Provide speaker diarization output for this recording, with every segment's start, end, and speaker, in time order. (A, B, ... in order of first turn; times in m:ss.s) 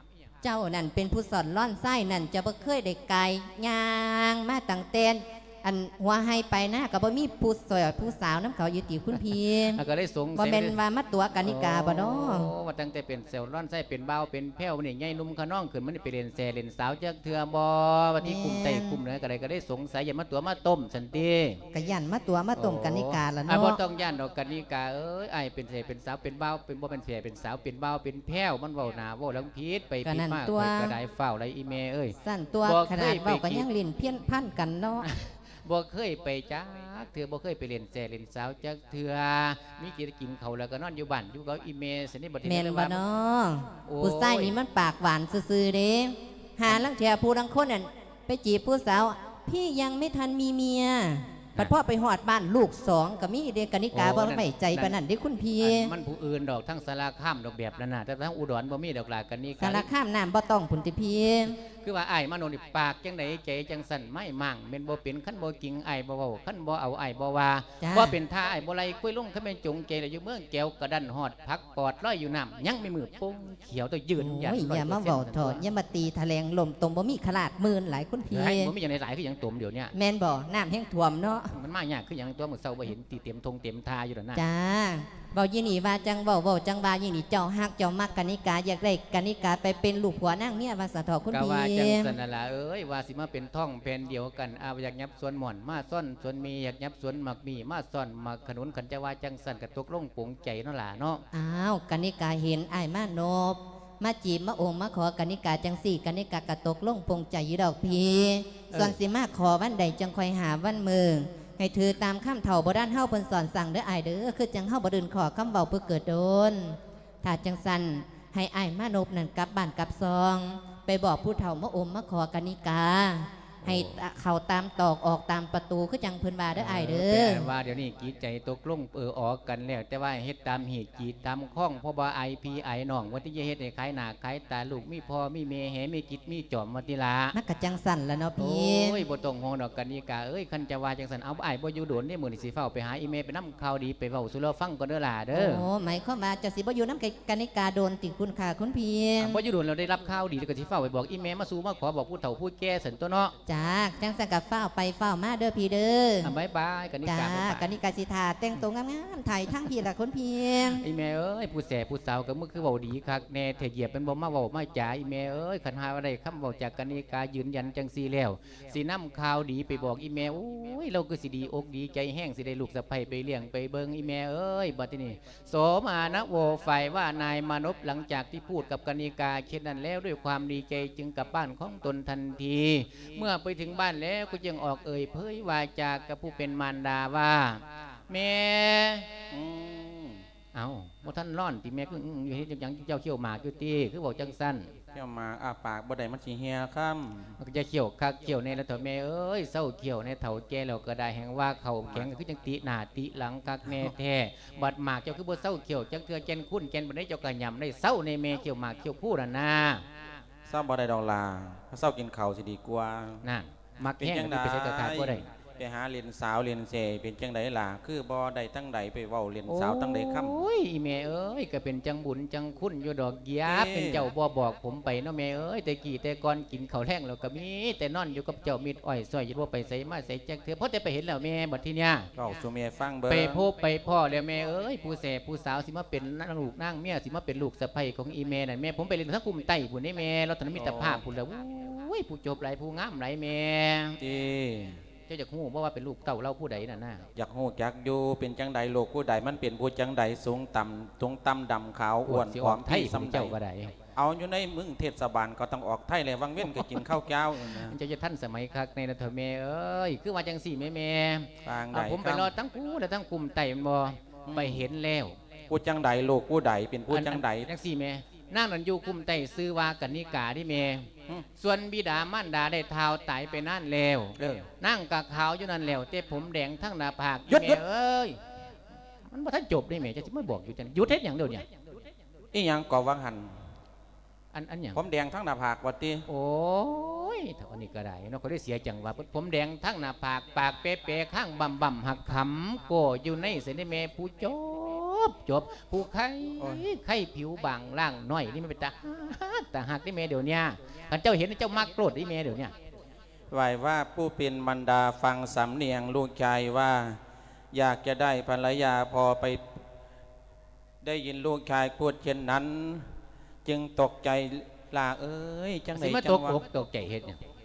0:00.4-0:09.8 A
0:09.1-0:10.8 B
0:10.4-0:12.5 A
0:11.4-0:21.6 B
0:18.2-0:19.0 A
0:21.7-0:23.8 A
0:22.6-0:33.6 B
0:30.0-0:31.0 A
0:32.2-0:35.1 A
0:35.0-0:43.0 B
0:42.4-0:55.9 A
0:43.9-0:44.5 B
0:53.9-0:55.0 B
0:55.6-0:59.9 B
0:59.6-1:01.6 A
1:01.8-1:15.6 B
1:07.8-1:08.2 A
1:14.2-1:18.7 A
1:18.3-1:19.9 B
1:19.9-1:21.5 A
1:21.5-1:24.4 B
1:24.4-1:32.1 A
1:31.3-1:41.2 B
1:41.3-2:07.5 A
2:03.6-2:03.9 B
2:06.6-2:17.4 B
2:17.3-2:19.0 A
2:18.4-2:25.6 B
2:25.3-2:29.4 A
2:29.2-2:33.3 B
2:33.5-2:36.3 A
2:36.2-2:37.7 B
2:37.0-2:40.8 A
2:40.7-3:09.1 B
3:09.3-3:10.2 C
3:10.5-3:14.7 B
3:14.9-3:17.4 C
3:17.4-3:29.8 B
3:30.5-3:33.2 C
3:33.2-3:35.2 B
3:34.0-3:40.4 C
3:39.5-3:52.1 B
3:43.4-3:44.1 C
3:52.1-3:53.4 C
3:53.1-4:04.0 B
4:00.5-4:01.0 C
4:04.0-4:04.8 C
4:05.1-4:07.0 B
4:07.1-4:13.3 C
4:12.0-4:13.7 B
4:14.0-4:17.8 C
4:16.4-4:25.2 B
4:21.4-4:22.3 C
4:24.3-4:24.6 C
4:25.5-4:27.5 C
4:26.9-4:38.2 B
4:37.3-4:37.6 C
4:39.1-4:41.4 B
4:42.3-4:43.4 C
4:44.3-4:44.8 B
4:44.8-4:46.0 C
4:46.1-5:02.5 B
5:03.3-5:07.0 C
5:07.5-5:09.4 C
5:10.8-5:12.9 C
5:13.4-5:16.4 C
5:15.7-5:17.2 B